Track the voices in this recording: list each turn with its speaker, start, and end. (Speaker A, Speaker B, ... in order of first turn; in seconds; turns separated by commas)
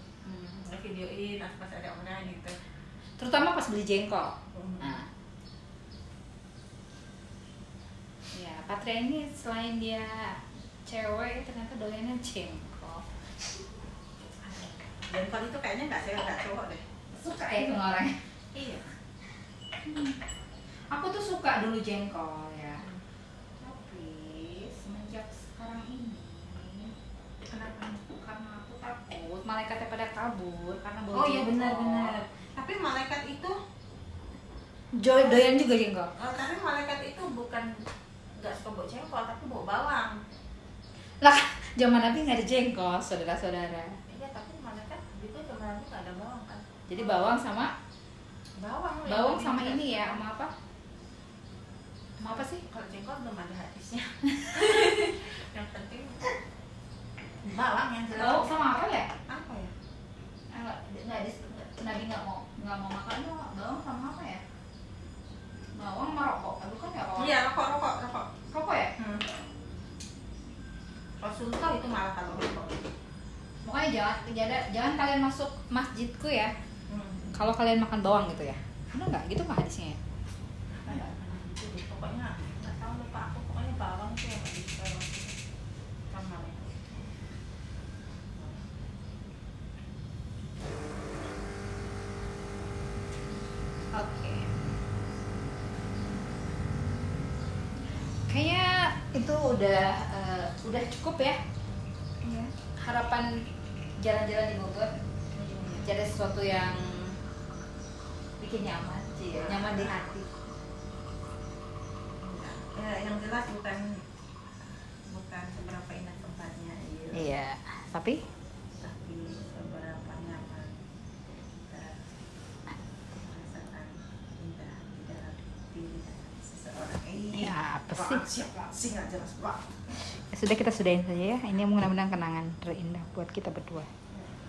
Speaker A: 0.3-0.6, Speaker B: 0.6-2.6, Speaker A: 3.2-5.1, Speaker B: 4.5-5.0, Speaker A: 8.3-13.1, Speaker B: 14.4-16.8, Speaker A: 17.1-18.2, Speaker B: 18.5-18.9, Speaker A: 19.8-20.2, Speaker A: 20.9-22.9, Speaker A: 23.6-26.9, Speaker A: 27.5-32.2, Speaker B: 31.1-33.6, Speaker A: 34.9-36.1, Speaker B: 35.1-35.5, Speaker B: 36.2-37.7, Speaker B: 38.4-40.2, Speaker A: 41.2-44.0, Speaker B: 44.1-46.6, Speaker A: 46.9-47.7, Speaker B: 48.6-50.2, Speaker A: 49.1-50.5, Speaker A: 52.2-52.6, Speaker B: 52.6-56.3, Speaker B: 57.4-58.6, Speaker A: 58.1-59.1, Speaker B: 59.3-59.7, Speaker A: 60.5-64.4, Speaker A: 65.7-67.4, Speaker B: 67.2-68.3, Speaker A: 68.5-68.9, Speaker B: 69.0-69.3, Speaker B: 71.2-72.9, Speaker A: 73.6-76.5, Speaker B: 76.9-77.3, Speaker A: 77.3-80.0, Speaker B: 80.8-85.4, Speaker B: 86.1-87.1, Speaker B: 88.3-88.7, Speaker A: 93.9-94.5, Speaker A: 98.3-101.4, Speaker A: 102.2-103.3, Speaker A: 104.0-105.0, Speaker B: 105.3-105.9, Speaker A: 105.8-107.2, Speaker A: 108.4-110.3, Speaker B: 109.3-109.9, Speaker B: 112.2-114.0, Speaker B: 115.1-117.3, Speaker A: 117.1-118.2, Speaker B: 118.8-120.8, Speaker B: 121.7-122.0, Speaker B: 123.2-129.7, Speaker A: 127.4-128.2, Speaker A: 130.1-133.9